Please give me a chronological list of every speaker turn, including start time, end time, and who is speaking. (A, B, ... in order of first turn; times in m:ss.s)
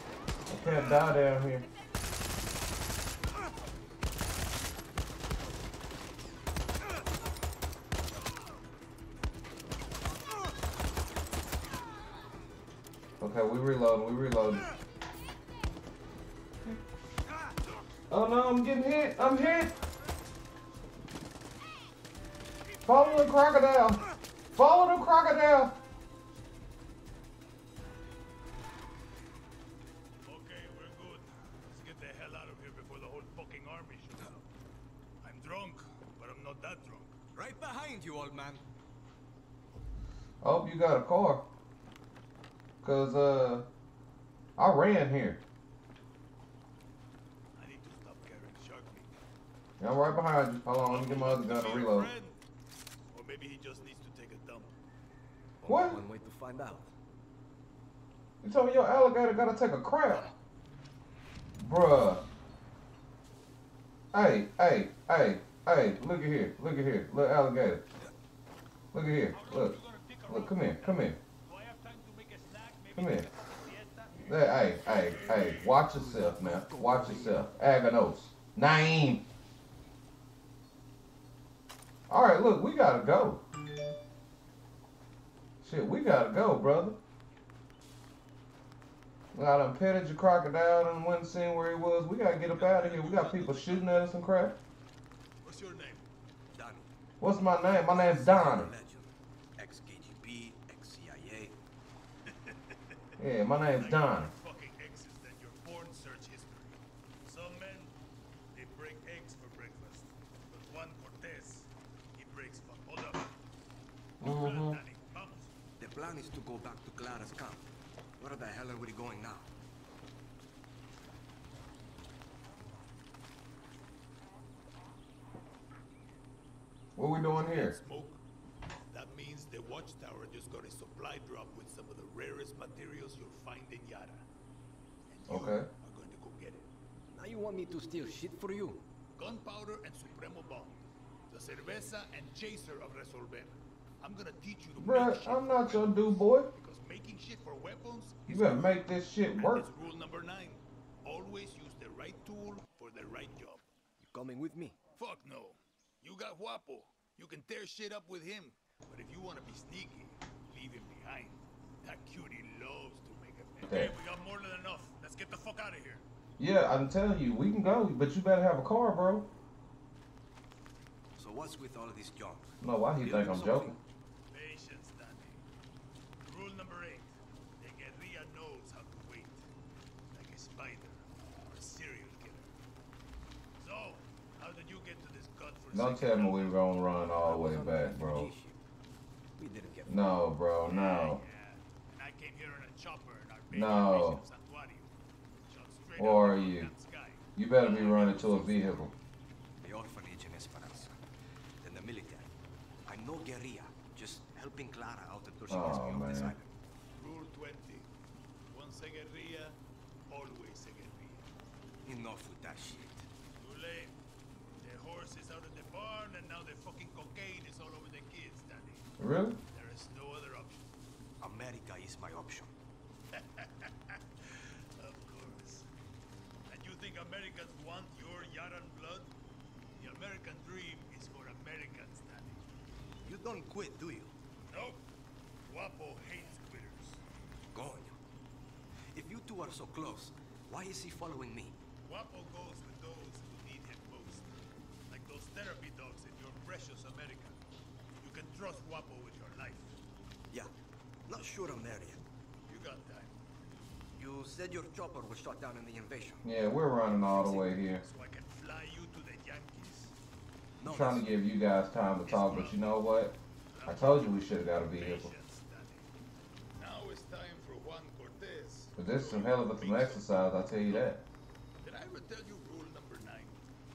0:00.5-0:01.7 A
0:13.2-0:14.7 A
0:18.1-0:19.7 A
0:22.8-0:24.0 A
0:24.5-0:25.8 A
0:30.2-0:34.4 B
0:35.2-0:37.1 B
0:37.3-0:38.6 C
0:40.4-0:41.5 A
0:42.8-0:43.7 A
0:44.6-0:45.4 A
0:47.6-0:49.1 B
0:49.8-0:52.1 A
0:50.8-0:52.4 B
0:53.1-0:54.8 B
0:55.6-0:56.9 C
0:55.6-0:56.0 A
0:58.4-1:00.3 A
1:01.6-1:02.2 A
1:04.1-1:07.8 A
1:08.9-1:11.2 A
1:09.3-1:15.7 B
1:13.0-1:13.3 A
1:14.2-1:19.2 A
1:15.2-1:17.4 C
1:22.1-1:23.4 A
1:25.6-1:27.0 A
1:29.3-1:34.6 A
1:32.5-1:33.9 B
1:35.4-1:36.0 B
1:36.5-1:36.9 C
1:37.2-1:38.7 A
1:37.6-1:41.6 C
1:42.3-1:42.8 B
1:43.2-1:44.3 A
1:43.5-1:47.9 B
1:48.5-1:53.3 B
1:54.2-1:54.8 A
1:54.2-1:55.5 B
1:55.8-1:57.7 C
1:58.2-1:59.5 C
2:07.0-2:07.8 A
2:07.2-2:08.2 B
2:08.9-2:14.2 B
2:15.1-2:16.7 B
2:15.3-2:15.7 A
2:17.1-2:18.8 C
2:19.1-2:25.9 B
2:24.8-2:26.5 A
2:26.5-2:28.8 B
2:28.3-2:29.7 A
2:29.4-2:33.6 B
2:34.0-2:34.8 C
2:35.0-2:46.0 B
2:43.6-2:44.0 A
2:46.4-2:49.3 A
2:51.2-2:53.8 C
2:52.6-2:53.8 A
2:54.3-2:55.4 B
2:56.2-2:59.4 B
3:00.1-3:02.5 B
3:03.6-3:06.7 B
3:05.7-3:08.3 A
3:07.2-3:08.6 C
3:09.4-3:10.1 C
3:09.9-3:11.2 A
3:10.6-3:14.9 B
3:13.5-3:14.2 A
3:15.4-3:18.8 B
3:16.0-3:16.7 A
3:17.4-3:18.9 A
3:19.6-3:21.0 C
3:21.6-3:22.3 C
3:22.8-3:26.5 C
3:25.5-3:26.4 A
3:27.0-3:27.9 B
3:28.5-3:29.6 B
3:30.1-3:31.2 B
3:31.8-3:33.1 C
3:33.4-3:34.0 B
3:34.6-3:38.8 B
3:39.0-3:39.4 A
3:39.5-3:40.6 B
3:41.2-3:42.5 C
3:43.1-3:45.7 B
3:46.5-3:49.1 B
3:49.8-3:52.4 B
3:53.0-3:54.1 C
3:54.5-3:54.8 B
3:55.4-3:57.0 B
3:57.5-3:58.0 C
3:58.9-4:01.6 C
4:01.8-4:04.3 B
4:04.9-4:07.4 B
4:08.0-4:09.8 B
4:11.0-4:12.0 C
4:12.5-4:13.2 B
4:14.0-4:16.2 C
4:16.2-4:17.8 A
4:17.2-4:17.4 C
4:17.3-4:19.9 B
4:20.6-4:21.2 C
4:20.6-4:23.2 A
4:22.0-4:22.6 B
4:23.5-4:25.9 B
4:23.7-4:25.1 A
4:26.6-4:30.9 B
4:28.8-4:31.0 A
4:31.6-4:33.4 B